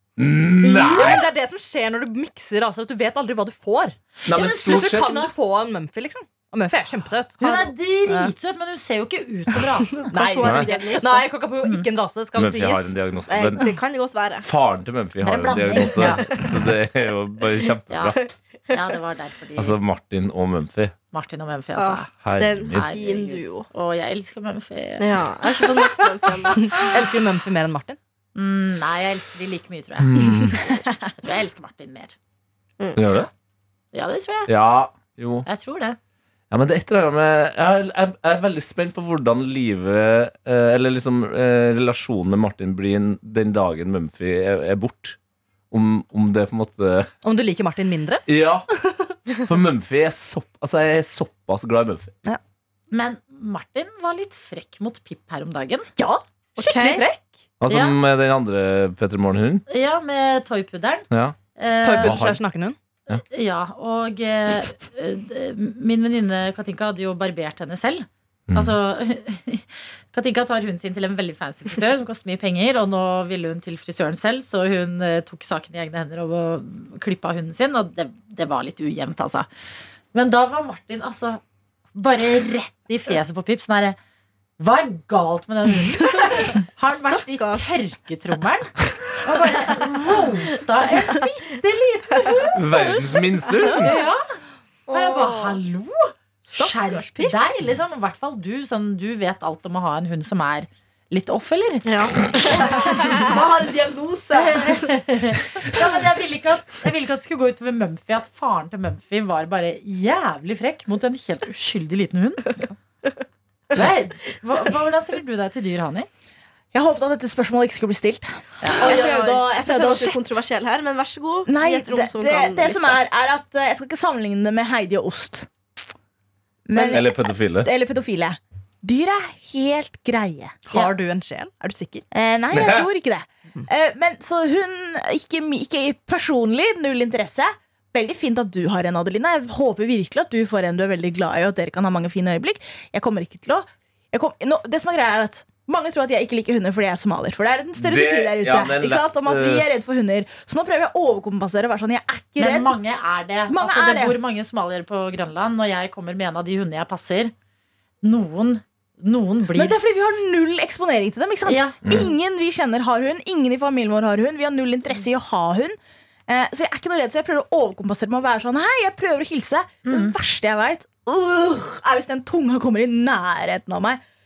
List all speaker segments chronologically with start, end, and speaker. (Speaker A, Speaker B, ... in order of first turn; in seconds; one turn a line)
Speaker A: 0.2-1.3
Speaker B: 0.6-7.5
Speaker C: 0.8-1.2
Speaker A: 4.2-5.2
Speaker C: 4.3-5.3
Speaker C: 7.4-10.1
Speaker B: 8.1-8.3
Speaker D: 9.9-11.3
Speaker B: 10.1-12.9
Speaker A: 10.4-10.7
Speaker A: 12.4-13.7
Speaker D: 13.3-14.5
Speaker A: 14.4-18.2
Speaker C: 15.2-16.3
Speaker B: 15.9-16.2
Speaker D: 16.0-16.6
Speaker C: 17.9-18.2
Speaker C: 18.7-19.8
Speaker A: 19.6-21.0
Speaker C: 21.1-26.6
Speaker D: 21.8-23.6
Speaker A: 22.2-22.9
Speaker D: 25.0-26.8
Speaker B: 26.7-28.0
Speaker C: 28.3-32.1
Speaker A: 30.0-30.7
Speaker D: 32.8-33.1
Speaker A: 33.0-33.3
Speaker C: 33.9-34.5
Speaker A: 34.5-35.5
Speaker C: 35.5-36.0
Speaker A: 36.5-45.2
Speaker A: 45.7-47.1
Speaker B: 47.2-48.3
Speaker A: 48.3-48.7
Speaker A: 49.5-52.1
Speaker C: 52.9-55.9
Speaker E: 56.0-56.2
Speaker D: 56.6-57.0
Speaker B: 56.6-57.2
Speaker A: 57.6-59.6
Speaker C: 57.7-58.0
Speaker C: 59.7-62.2
Speaker A: 61.1-61.4
Speaker B: 61.8-62.8
Speaker A: 62.0-62.4
Speaker C: 63.1-79.5
Speaker A: 68.5-68.8
Speaker C: 80.1-81.4
Speaker C: 81.9-84.0
Speaker C: 84.6-94.2
Speaker D: 86.4-87.6
Speaker A: 92.5-93.9
Speaker D: 94.9-95.6
Speaker C: 94.9-103.4
Speaker D: 96.4-97.4
Speaker D: 101.8-104.9
Speaker C: 104.3-112.6
Speaker C: 113.7-116.1
Speaker E: 116.7-120.4
Speaker C: 118.6-119.0
Speaker D: 118.8-123.0
Speaker E: 121.5-125.5
Speaker E: 126.7-130.7
Speaker A: 126.7-127.7
Speaker B: 130.7-132.1
Speaker E: 132.1-152.8
Speaker A: 132.5-132.9
Speaker A: 147.8-149.7
Speaker C: 152.4-157.3
Speaker E: 153.5-154.2
Speaker C: 158.0-159.8
Speaker E: 159.5-174.0
Speaker C: 161.4-161.8
Speaker C: 169.9-170.1